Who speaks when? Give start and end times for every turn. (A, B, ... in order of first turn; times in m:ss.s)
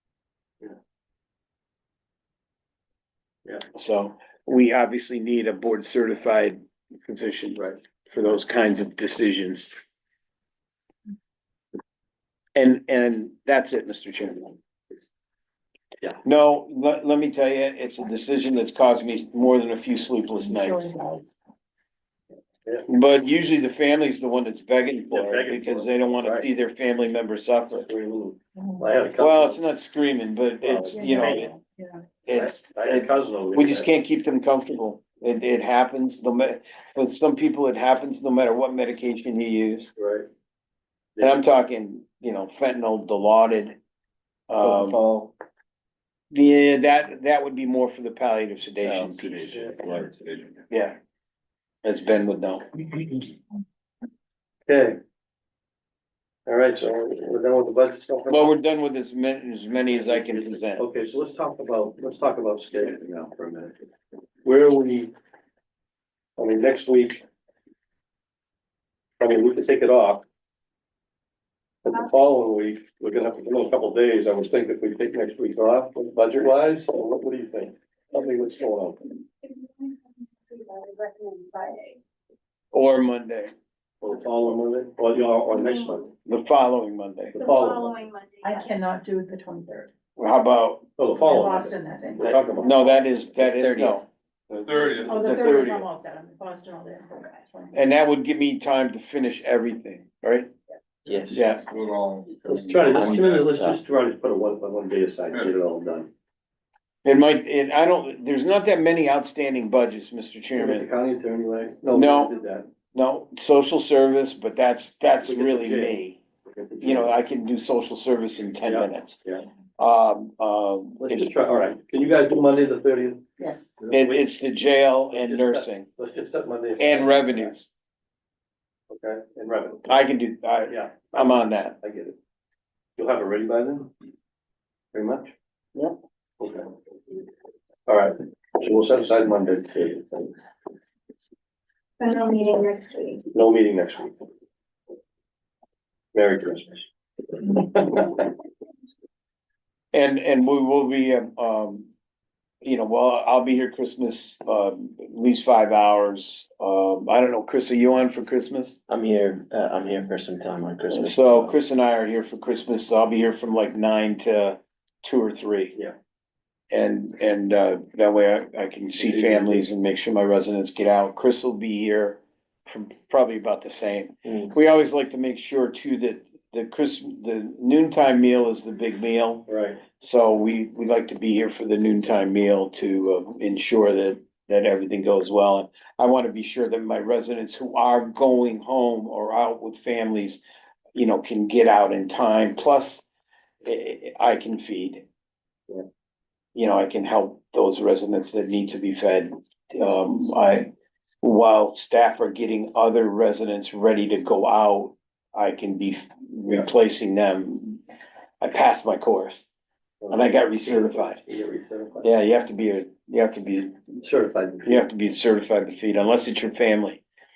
0:03.7-0:09.7 A
0:12.6-0:14.6 A
0:16.2-0:21.0 A
0:20.4-0:21.2 B
0:22.9-0:27.9 A
0:25.1-0:26.5 C
0:27.7-0:29.6 C
0:29.2-0:31.5 A
0:30.6-0:31.4 C
0:30.9-0:32.0 B
0:32.3-0:39.9 A
0:32.3-0:33.9 C
0:40.0-0:40.3 C
0:41.2-0:41.4 C
0:41.2-0:43.8 A
0:44.5-0:45.0 A
0:44.6-0:45.3 D
0:46.3-0:49.6 A
0:48.8-0:50.1 D
0:49.6-0:50.4 E
0:50.7-0:51.0 A
0:51.8-0:52.7 A
0:54.7-0:55.0 C
0:56.5-0:58.5 C
0:58.3-1:00.8 A
1:00.0-1:03.8 C
1:04.4-1:05.1 C
1:06.4-1:07.2 C
1:09.2-1:10.2 C
1:11.8-1:19.2 C
1:19.4-1:22.0 F
1:22.7-1:23.5 A
1:24.0-1:26.1 C
1:26.3-1:27.4 A
1:27.3-1:28.0 C
1:27.4-1:28.8 F
1:28.4-1:29.9 B
1:30.2-1:30.9 A
1:31.0-1:32.9 C
1:31.2-1:33.0 B
1:32.2-1:35.9 A
1:33.4-1:34.0 D
1:34.6-1:35.5 E
1:35.0-1:37.8 B
1:37.7-1:40.5 A
1:41.1-1:41.4 D
1:41.3-1:41.6 A
1:41.7-1:43.6 E
1:42.4-1:46.1 C
1:42.9-1:43.8 D
1:47.0-1:50.9 A
1:50.6-1:52.7 C
1:51.9-1:52.4 A
1:52.9-1:56.2 A
1:55.2-1:56.0 C
1:56.5-1:57.2 C
1:56.8-1:59.2 A
1:58.6-1:59.4 C
1:59.8-2:01.3 A
2:01.0-2:03.3 C
2:03.4-2:03.7 B
2:03.8-2:04.2 C
2:03.9-2:05.9 A
2:05.1-2:07.5 C
2:06.8-2:07.7 A
2:08.9-2:09.9 C
2:09.9-2:11.8 A
2:10.7-2:12.2 C
2:13.0-2:13.9 C
2:14.9-2:15.3 C
2:16.4-2:16.7 C
2:17.9-2:20.3 C
2:22.0-2:23.2 F
2:23.3-2:24.2 C
2:26.1-2:26.9 C
2:27.4-2:28.2 C
2:29.9-2:31.9 A
2:32.6-2:38.8 A
2:38.9-2:41.6 D
2:40.9-2:45.8 A
2:46.7-2:59.5 A
2:49.0-2:49.7 C
2:59.5-2:59.8 C
3:00.0-3:10.4 A
3:11.0-3:13.0 A
3:13.6-3:15.0 A
3:16.6-3:20.7 A
3:21.2-3:27.8 A
3:28.4-3:29.4 A
3:30.0-3:30.3 C
3:30.1-3:31.2 A
3:31.2-3:32.1 C
3:32.0-3:33.8 A
3:34.0-3:34.8 C
3:34.6-3:37.0 A